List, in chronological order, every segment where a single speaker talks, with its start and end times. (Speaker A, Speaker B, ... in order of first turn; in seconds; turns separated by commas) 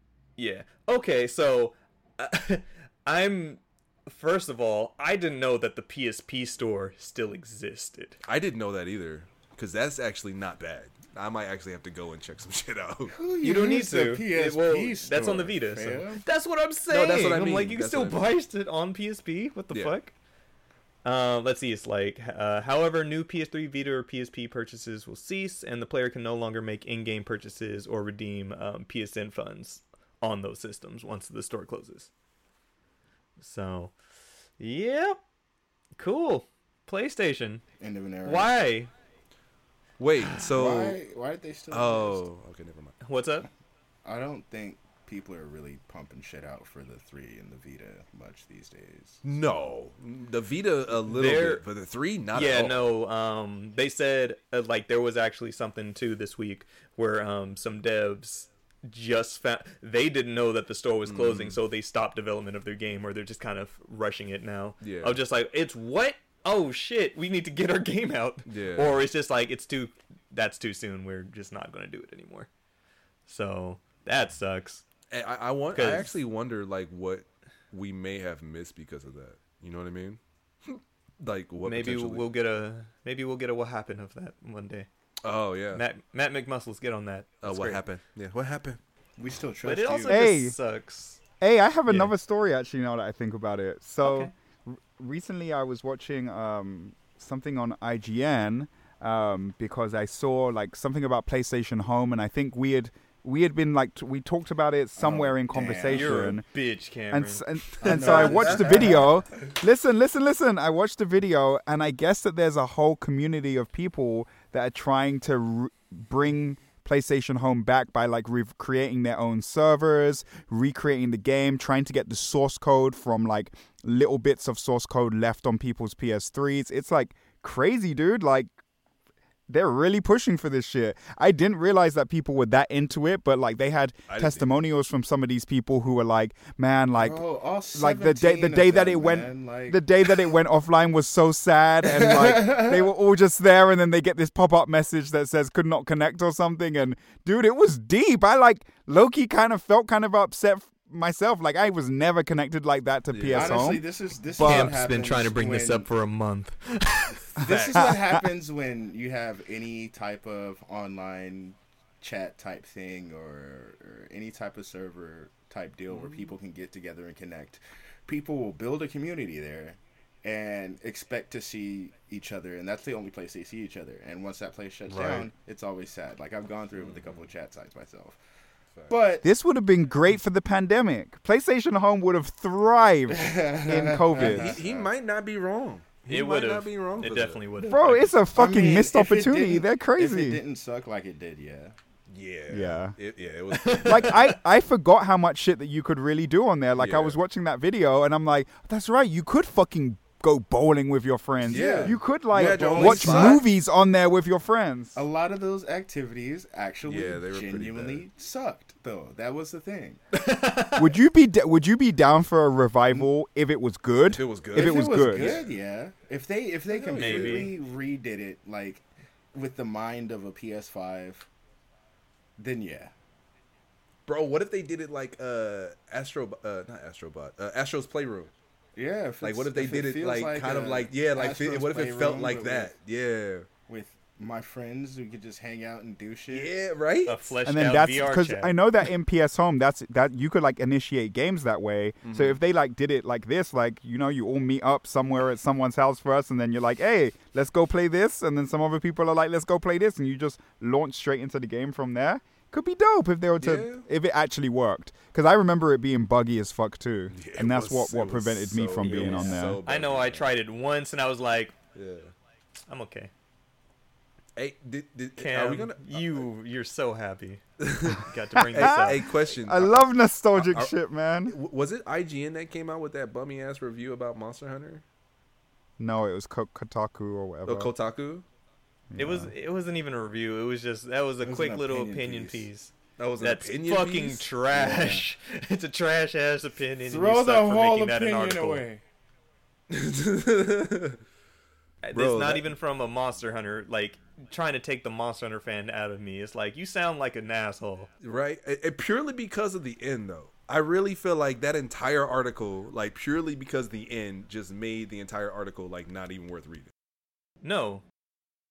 Speaker A: 0.4-8.2, Speaker B: 8.2-13.2, Speaker C: 13.1-16.2, Speaker A: 13.4-20.1, Speaker B: 16.9-18.4, Speaker A: 21.0-32.1, Speaker A: 33.4-33.9, Speaker A: 34.6-35.2, Speaker A: 36.0-37.6, Speaker C: 37.8-38.5, Speaker A: 38.2-38.9, Speaker B: 40.0-41.0, Speaker A: 40.2-40.5, Speaker C: 40.5-42.2, Speaker B: 41.7-43.0, Speaker A: 43.0-43.5, Speaker C: 44.0-49.2, Speaker B: 49.2-52.9, Speaker A: 51.0-51.6, Speaker A: 52.3-72.5, Speaker B: 61.1-61.6, Speaker B: 64.8-65.2, Speaker B: 68.5-69.0, Speaker A: 73.3-74.8, Speaker B: 75.1-82.3, Speaker A: 75.7-76.2, Speaker A: 81.7-84.9, Speaker B: 85.2-85.8, Speaker A: 85.7-87.8, Speaker B: 87.4-88.8, Speaker C: 89.2-90.3, Speaker A: 89.6-91.2, Speaker D: 90.1-90.6, Speaker D: 91.4-106.5, Speaker A: 91.9-92.1, Speaker A: 94.0-94.3, Speaker C: 105.0-106.3, Speaker A: 105.9-108.7, Speaker D: 107.1-128.5, Speaker C: 107.8-109.1, Speaker B: 107.9-108.3, Speaker D: 129.5-137.2, Speaker B: 134.1-134.6, Speaker C: 137.0-139.8, Speaker D: 137.7-154.8, Speaker C: 141.8-142.9, Speaker B: 153.1-153.7, Speaker C: 153.3-155.9, Speaker A: 154.4-157.2, Speaker B: 157.3-158.0, Speaker C: 157.4-178.2, Speaker D: 157.7-158.2, Speaker B: 165.9-166.3, Speaker B: 174.9-175.3, Speaker B: 176.8-177.3, Speaker C: 178.9-179.3, Speaker D: 179.2-184.6, Speaker C: 183.1-184.9, Speaker B: 184.1-187.4, Speaker A: 186.1-188.2, Speaker D: 187.6-190.4, Speaker C: 188.3-191.8, Speaker B: 192.1-194.2, Speaker D: 192.5-193.0, Speaker A: 193.5-194.4, Speaker D: 193.8-205.0, Speaker B: 196.8-197.2, Speaker C: 201.4-203.5, Speaker B: 201.5-203.4, Speaker C: 204.9-210.0, Speaker B: 206.8-208.1, Speaker A: 210.1-211.0, Speaker D: 210.8-215.4, Speaker B: 214.1-215.6, Speaker C: 214.5-221.3, Speaker B: 216.8-217.5, Speaker A: 216.9-217.6, Speaker C: 222.4-222.9, Speaker B: 224.1-228.3, Speaker C: 228.8-232.7, Speaker B: 229.2-233.5, Speaker C: 233.7-236.5, Speaker B: 236.3-237.3, Speaker A: 237.1-238.6, Speaker D: 237.4-259.6, Speaker B: 242.0-242.4, Speaker B: 253.4-253.8, Speaker B: 257.1-260.4, Speaker A: 259.6-261.6, Speaker B: 261.7-262.1, Speaker A: 262.7-263.1, Speaker B: 264.4-266.3, Speaker A: 265.2-269.0, Speaker B: 267.6-270.8, Speaker D: 268.6-271.4, Speaker B: 271.3-274.8, Speaker D: 275.8-277.7, Speaker B: 277.5-278.2, Speaker D: 278.9-279.3, Speaker A: 279.0-288.7, Speaker C: 281.2-282.5, Speaker B: 283.0-284.4, Speaker C: 284.5-285.1, Speaker C: 286.8-288.8, Speaker B: 289.7-291.0, Speaker A: 291.8-297.9, Speaker B: 291.9-292.5, Speaker B: 298.0-306.7, Speaker A: 307.4-307.8